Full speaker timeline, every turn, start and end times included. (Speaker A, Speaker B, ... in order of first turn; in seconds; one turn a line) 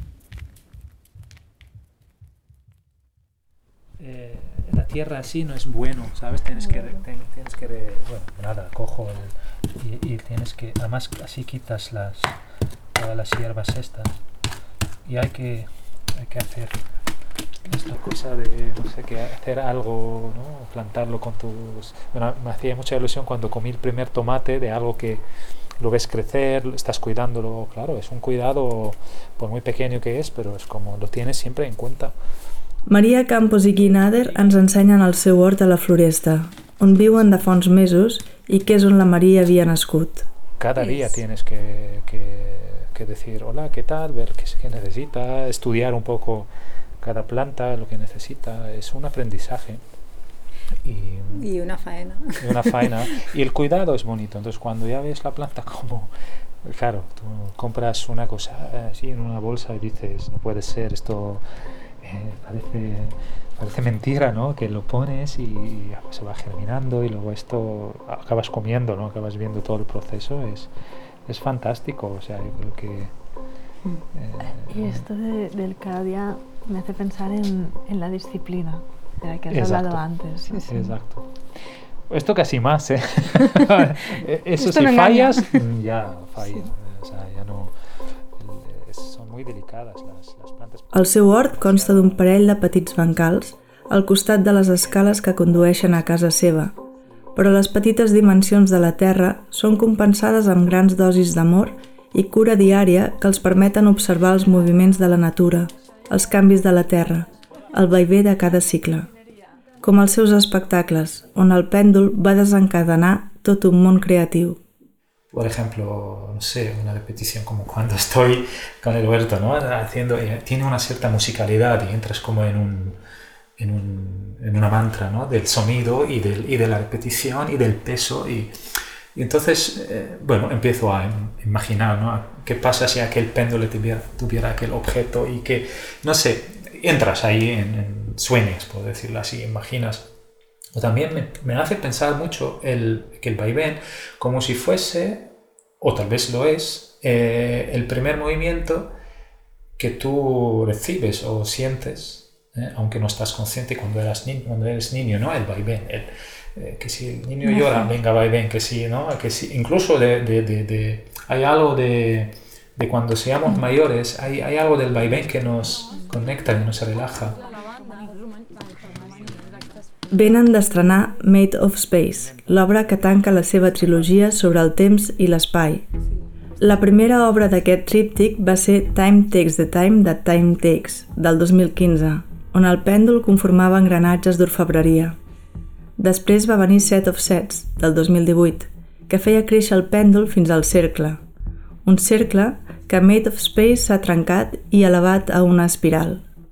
Speaker A: 4.0-12.3
Speaker A: 12.9-14.2
Speaker A: 15.1-16.8
Speaker A: 17.6-25.2
Speaker A: 25.8-32.1
Speaker B: 32.9-40.2
Speaker A: 33.9-34.7
Speaker A: 37.0-37.3
Speaker A: 40.6-46.5
Speaker A: 47.0-49.8
Speaker A: 50.8-51.5
Speaker C: 51.3-53.1
Speaker A: 52.4-56.1
Speaker A: 56.6-61.4
Speaker A: 62.0-70.7
Speaker A: 71.2-73.1
Speaker A: 74.1-75.0
Speaker D: 74.4-80.9
Speaker A: 79.5-80.0
Speaker A: 80.7-81.3
Speaker A: 82.1-87.7
Speaker C: 84.6-85.6
Speaker A: 88.3-93.5
Speaker B: 90.9-96.7
Speaker A: 95.0-96.2
Speaker B: 97.3-109.1
Speaker B: 109.8-114.6
Speaker A: 115.3-123.0
Speaker A: 123.6-128.5
Speaker A: 129.1-140.1
Speaker A: 140.7-148.9
Speaker A: 149.8-167.4
Speaker C: 157.4-157.9
Speaker C: 167.5-168.6
Speaker A: 168.9-169.6
Speaker B: 170.1-175.8
Speaker A: 172.3-174.1
Speaker B: 176.6-185.2
Speaker B: 186.0-191.2
Speaker B: 191.8-196.2